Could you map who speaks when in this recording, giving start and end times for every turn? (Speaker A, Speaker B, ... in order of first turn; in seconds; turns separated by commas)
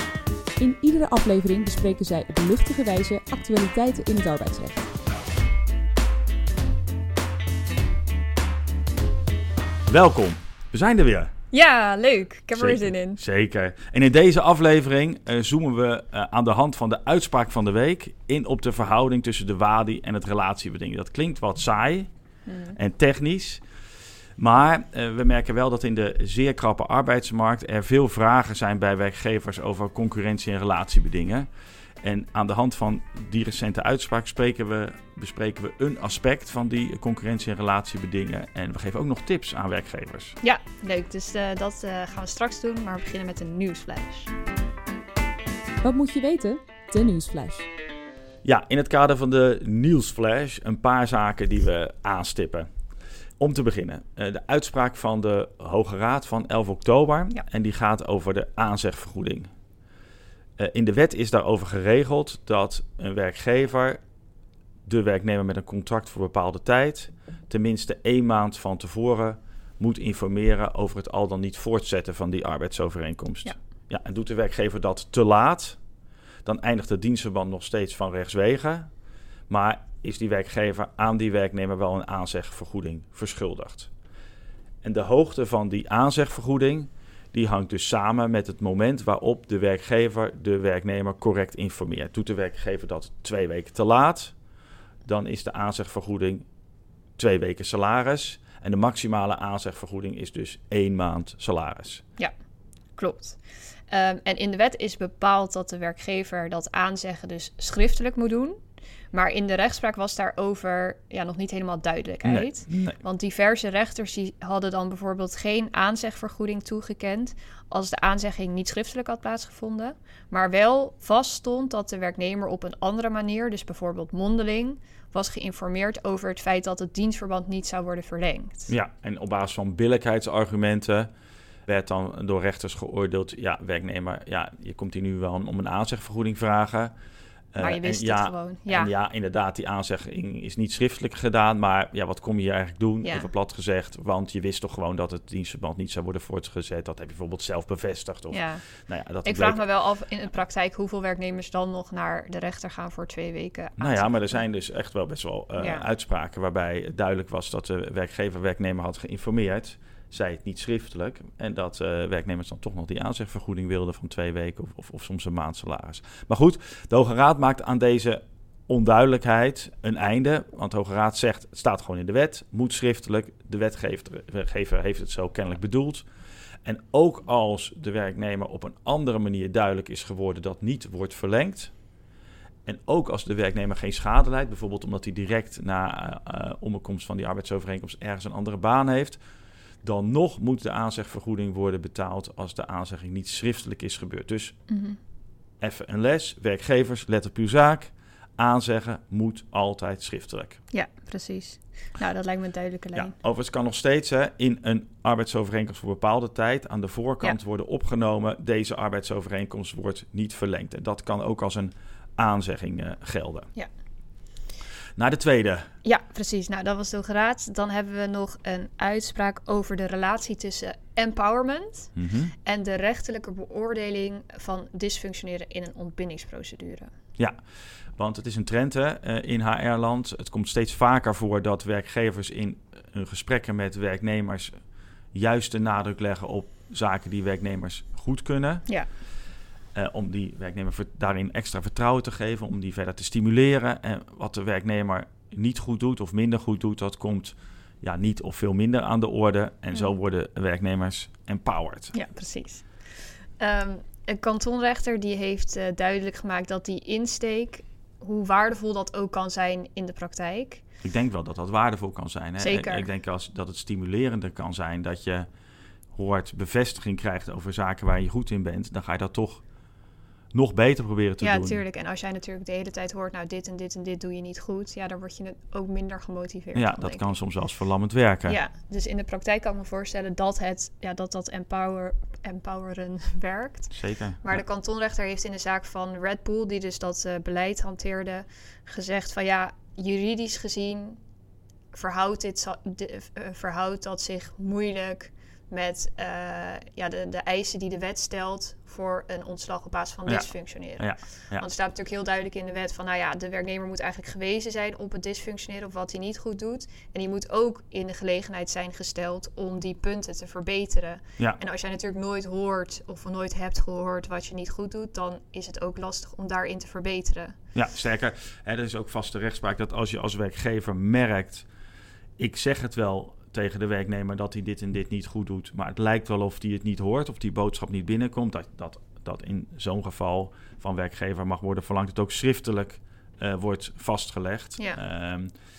Speaker A: 0.6-4.9, Speaker B: 9.9-11.3, Speaker C: 11.5-13.2, Speaker B: 12.5-22.1, Speaker C: 22.5-22.8, Speaker B: 22.7-23.6, Speaker B: 24.4-31.5, Speaker B: 32.0-40.4, Speaker C: 40.4-44.3, Speaker A: 45.8-47.7, Speaker B: 48.4-52.7, Speaker B: 53.4-59.5, Speaker B: 60.6-64.0, Speaker B: 64.8-75.8, Speaker B: 76.4-78.9, Speaker B: 79.5-83.9, Speaker B: 84.8-94.3, Speaker B: 95.0-96.4, Speaker B: 97.2-102.0, Speaker C: 102.9-108.6, Speaker C: 109.1-128.7, Speaker B: 112.2-113.0, Speaker B: 128.7-131.1, Speaker B: 131.7-136.9, Speaker B: 137.5-149.6, Speaker C: 137.6-138.9, Speaker C: 143.0-143.3, Speaker C: 148.3-148.7, Speaker C: 149.2-154.4, Speaker B: 153.8-176.1, Speaker C: 155.6-155.9, Speaker B: 176.6-181.7, Speaker B: 182.6-189.2, Speaker B: 189.8-194.5, Speaker C: 194.7-195.0, Speaker B: 195.6-200.6, Speaker C: 200.7-203.1, Speaker B: 202.9-213.5, Speaker B: 214.9-215.7, Speaker C: 215.8-226.9, Speaker B: 221.9-222.3, Speaker B: 227.9-234.6, Speaker B: 235.1-238.7, Speaker B: 239.7-251.9, Speaker C: 251.9-252.7, Speaker C: 253.4-260.6, Speaker B: 260.8-265.2, Speaker C: 262.4-262.9, Speaker B: 265.9-269.4, Speaker B: 270.3-271.6, Speaker C: 271.2-277.2, Speaker B: 276.5-278.4, Speaker C: 278.2-291.0, Speaker B: 283.7-284.4, Speaker C: 291.7-317.4, Speaker B: 300.1-301.4, Speaker B: 317.5-321.4, Speaker B: 322.2-335.3